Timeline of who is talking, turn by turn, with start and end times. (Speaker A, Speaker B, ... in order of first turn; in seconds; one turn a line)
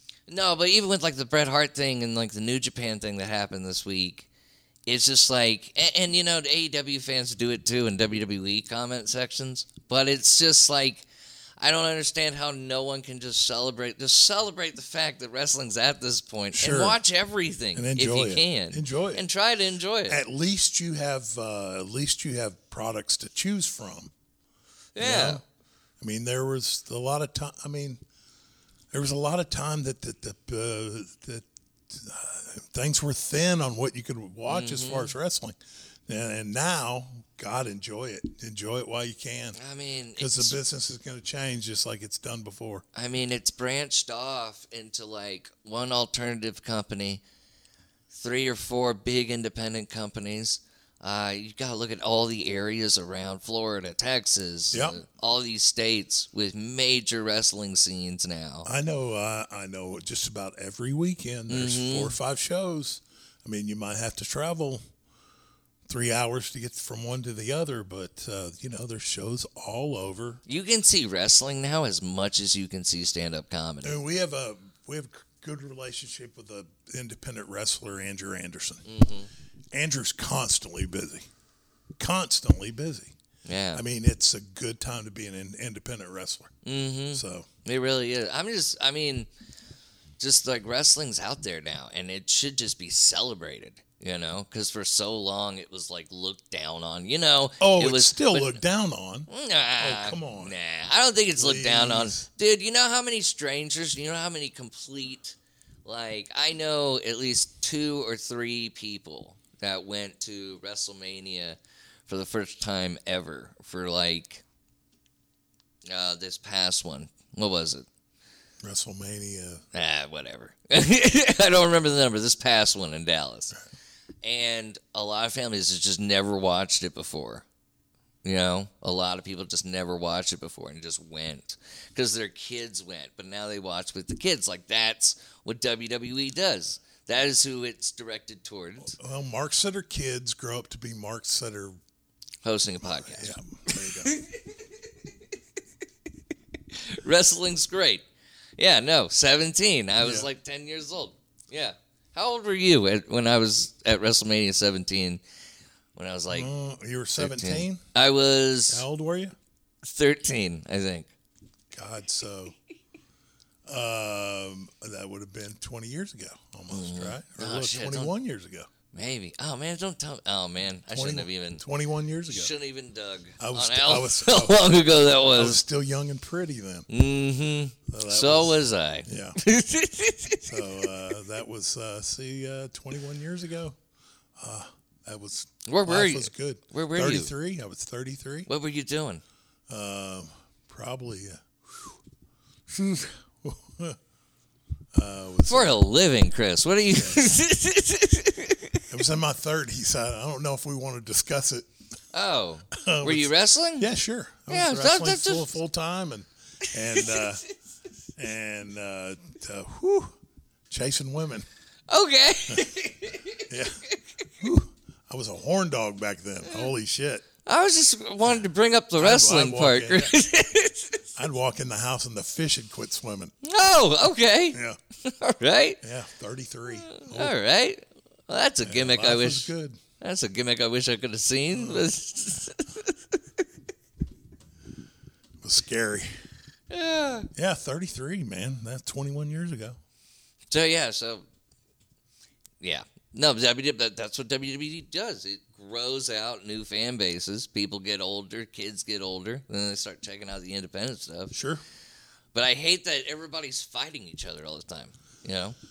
Speaker A: 0.3-4.3
Speaker A: 4.9-11.1
Speaker A: 11.6-20.2
Speaker B: 16.5-17.0
Speaker B: 17.8-19.2
Speaker B: 20.1-24.1
Speaker A: 24.9-25.4
Speaker B: 25.0-25.4
Speaker B: 26.0-28.0
Speaker B: 28.9-39.6
Speaker A: 34.5-35.1
Speaker A: 39.5-40.6
Speaker B: 40.2-42.8
Speaker A: 43.0-47.2
Speaker A: 48.1-58.7
Speaker B: 54.7-55.0
Speaker B: 58.6-64.8
Speaker A: 61.5-62.1
Speaker B: 65.9-70.4
Speaker A: 70.5-74.0
Speaker B: 73.8-78.9
Speaker A: 78.9-79.3
Speaker B: 79.7-81.3
Speaker B: 82.0-83.1
Speaker A: 83.5-83.8
Speaker B: 83.7-86.5
Speaker A: 86.6-89.3
Speaker B: 87.1-87.5
Speaker A: 90.2-98.6
Speaker B: 97.6-99.3
Speaker A: 99.3-114.4
Speaker B: 99.8-100.5
Speaker B: 101.4-102.2
Speaker A: 115.9-117.9
Speaker B: 118.6-119.6
Speaker A: 119.7-123.6
Speaker A: 124.2-127.5
Speaker A: 128.2-139.0
Speaker B: 138.9-141.8
Speaker A: 142.4-145.1
Speaker B: 142.8-144.1
Speaker A: 146.7-148.0
Speaker A: 148.6-155.2
Speaker B: 150.0-150.3
Speaker A: 156.0-156.5
Speaker B: 156.3-157.8
Speaker A: 157.2-158.9
Speaker B: 158.7-159.3
Speaker A: 159.8-161.1
Speaker B: 161.7-162.6
Speaker B: 163.7-168.7
Speaker A: 166.7-168.1
Speaker A: 168.9-171.6
Speaker B: 170.9-172.5
Speaker A: 172.3-175.6
Speaker B: 173.4-174.6
Speaker B: 175.3-176.9
Speaker A: 176.9-180.9
Speaker B: 177.9-179.4
Speaker B: 180.4-183.8
Speaker B: 184.4-188.5
Speaker A: 185.7-187.3
Speaker A: 188.5-189.2
Speaker B: 189.7-192.0
Speaker B: 192.7-194.0
Speaker B: 194.9-195.8
Speaker A: 195.5-198.9
Speaker B: 196.9-197.2
Speaker B: 198.9-201.7
Speaker A: 202.1-203.9
Speaker B: 202.7-207.4
Speaker A: 204.5-205.5
Speaker A: 206.9-207.3
Speaker B: 208.2-210.2
Speaker B: 210.7-211.5
Speaker A: 211.9-214.0
Speaker B: 213.5-213.8
Speaker B: 214.4-217.3
Speaker A: 217.5-221.1
Speaker B: 219.0-220.2
Speaker B: 221.2-223.3
Speaker A: 223.4-225.8
Speaker B: 224.5-224.8
Speaker B: 225.8-227.3
Speaker A: 226.7-233.5
Speaker B: 228.6-229.8
Speaker B: 231.5-231.9
Speaker B: 235.4-236.1
Speaker A: 236.7-237.3
Speaker B: 237.3-239.8
Speaker A: 240.5-241.2
Speaker A: 242.6-251.3
Speaker B: 251.3-251.6
Speaker A: 252.3-255.6